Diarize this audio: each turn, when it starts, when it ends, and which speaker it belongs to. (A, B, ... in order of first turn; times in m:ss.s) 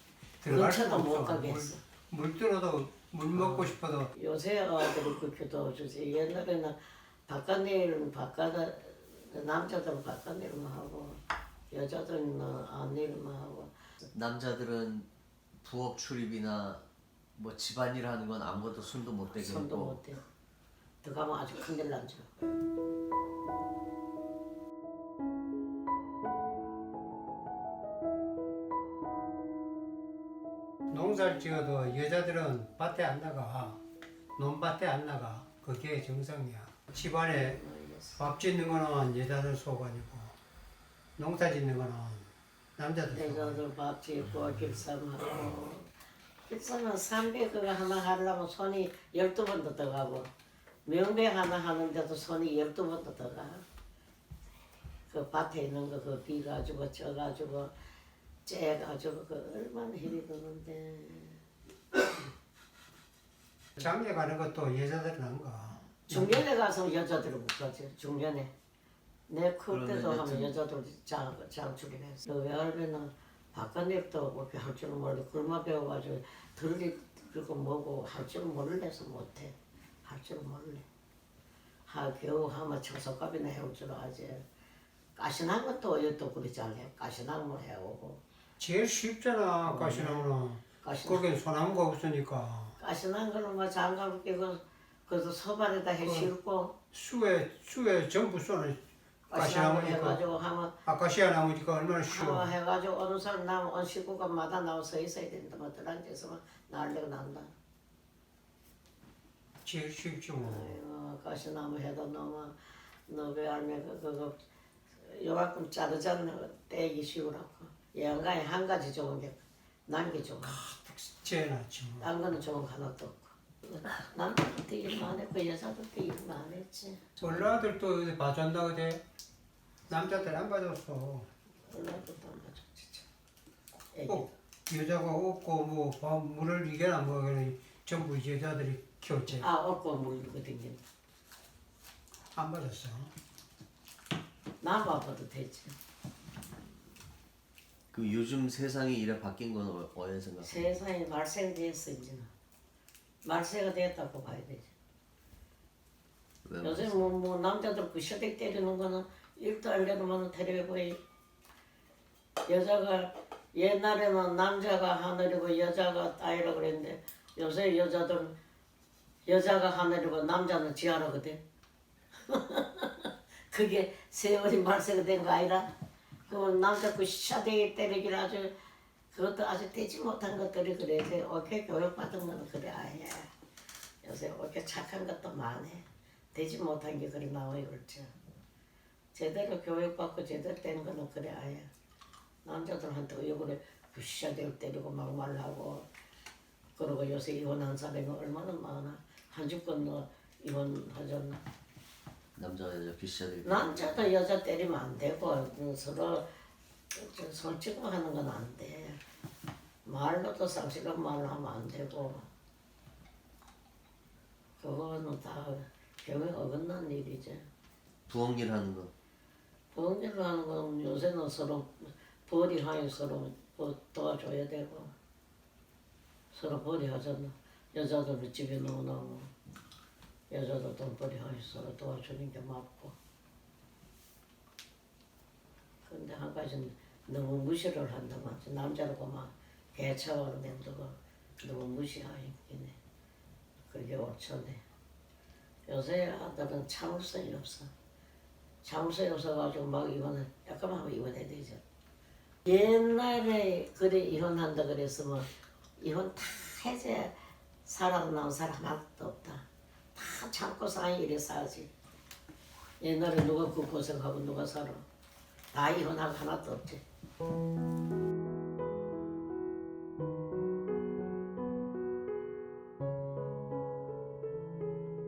0:00.4-0:04.1 A
0:00.5-0:01.8 B
0:03.4-0:06.8 B
0:07.3-0:11.2 B
0:11.7-0:13.7 B
0:14.1-0:15.1 C
0:15.6-0:16.8 C
0:17.4-0:20.0 C
0:19.3-0:20.2 B
0:21.0-0:22.3 B
0:30.9-0:33.8 A
0:34.4-0:37.6 A
0:37.3-0:38.2 B
0:38.2-0:40.3 A
0:41.2-0:43.6 A
0:43.1-0:45.9 B
0:46.5-0:50.3 B
0:50.8-0:53.6 B
0:55.1-0:57.7 B
0:58.4-1:01.4 B
1:03.8-1:06.4 A
1:06.1-1:08.5 B
1:09.3-1:19.5 B
1:09.7-1:10.5 C
1:20.0-1:20.8 B
1:21.9-1:24.4 B
1:25.2-1:28.2 B
1:28.6-1:32.7 A
1:29.6-1:31.2 B
1:32.8-1:36.8 B
1:36.0-1:36.3 A
1:36.9-1:38.8 A
1:39.3-1:40.7 B
1:39.3-1:40.2 A
1:40.8-1:42.5 A
1:42.1-1:47.5 B
1:49.6-1:50.7 A
1:50.4-1:52.5 B
1:53.1-1:54.3 B
1:55.0-1:59.4 B
1:59.9-2:00.6 B
2:00.6-2:02.1 A
2:02.0-2:07.4 B
2:07.2-2:09.0 A
2:09.9-2:11.2 A
2:11.7-2:13.0 B
2:13.9-2:14.3 B
2:14.1-2:19.4 A
2:19.3-2:20.8 B
2:22.4-2:23.1 A
2:24.6-2:25.7 B
2:27.9-2:30.7 C
2:30.4-2:32.3 B
2:33.2-2:34.7 B
2:36.4-2:37.0 C
2:36.6-2:41.0 B
2:42.5-2:48.3 B
2:49.2-2:51.4 B
2:52.2-2:55.7 B
2:56.3-2:58.5 B
2:59.1-3:03.3 B
3:04.0-3:08.1 B
3:09.1-3:11.7 B
3:12.4-3:15.8 B
3:16.8-3:21.4 B
3:22.4-3:24.0 C
3:23.4-3:26.2 B
3:26.9-3:29.0 B
3:29.8-3:32.2 B
3:34.6-3:37.4 B
3:38.1-3:38.9 C
3:39.7-3:44.9 B
3:46.3-3:49.3 B
3:50.3-3:52.9 B
3:55.8-4:02.8 B
4:03.7-4:04.6 B
4:05.7-4:07.7 B
4:08.6-4:11.6 B
4:12.4-4:19.4 B
4:19.9-4:21.7 B
4:22.8-4:24.8 B
4:25.5-4:26.8 B